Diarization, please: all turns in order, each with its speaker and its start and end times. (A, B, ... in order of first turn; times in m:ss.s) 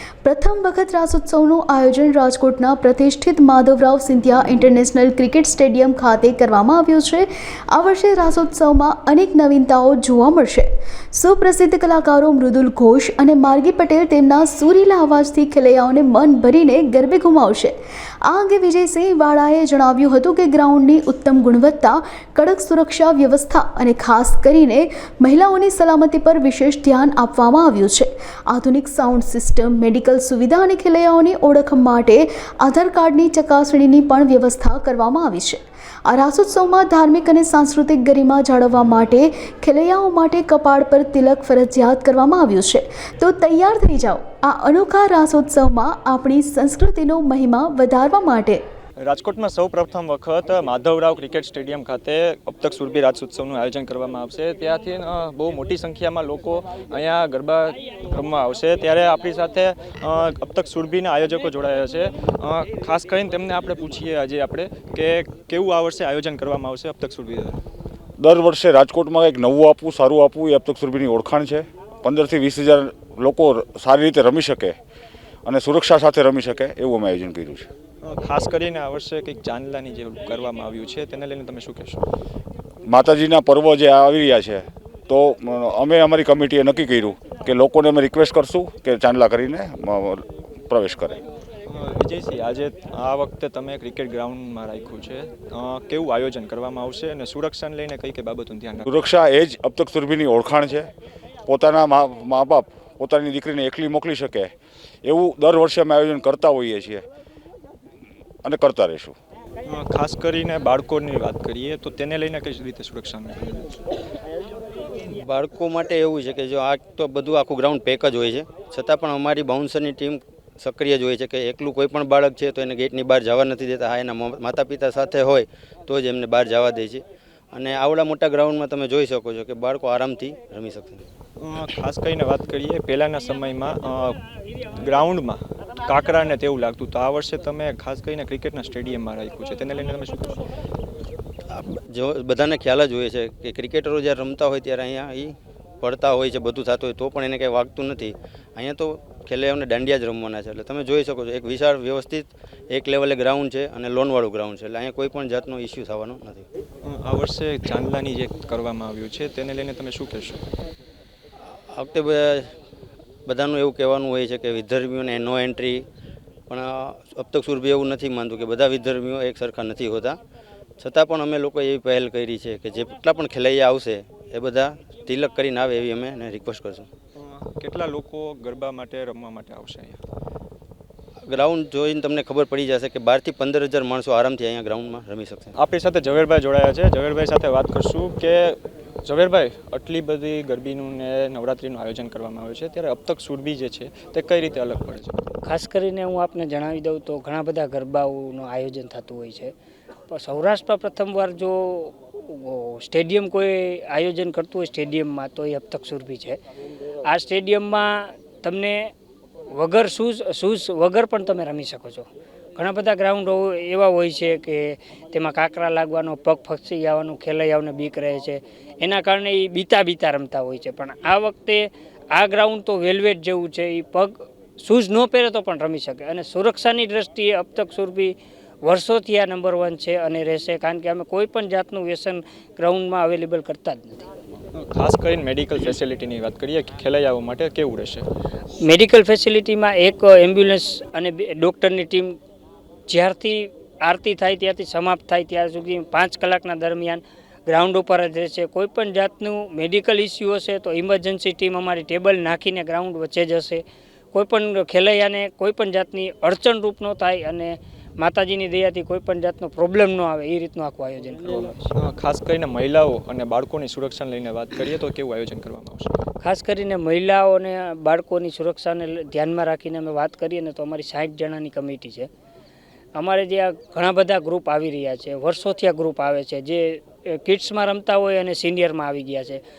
0:00.2-0:48.6 A
0:49.0-1:07.6 B
1:08.2-1:14.7 C
1:15.4-1:17.7 C
1:18.0-1:22.0 B
1:22.9-1:31.2 C
1:31.7-1:38.8 B
1:38.9-1:40.9 C
1:41.5-1:44.5 C
1:45.0-1:47.0 C
1:48.4-1:49.1 C
1:49.6-1:53.8 B
1:55.1-2:11.0 D
2:11.4-2:14.2 B
2:14.8-2:20.3 B
2:21.5-2:36.4 D
2:36.8-2:40.4 B
2:41.7-2:42.5 D
2:43.2-2:45.8 D
2:46.5-2:50.2 D
2:50.8-2:56.9 D
2:57.2-3:00.0 B
3:01.3-3:05.5 D
3:05.6-3:15.2 B
3:15.4-3:19.5 E
3:20.1-3:26.4 E
3:27.0-3:28.9 E
3:29.5-3:54.1 E
3:54.5-3:58.1 B
3:58.6-4:02.2 E
4:02.9-4:21.7 E
4:21.2-4:25.9 B
4:26.2-4:32.1 E
4:33.0-4:39.4 E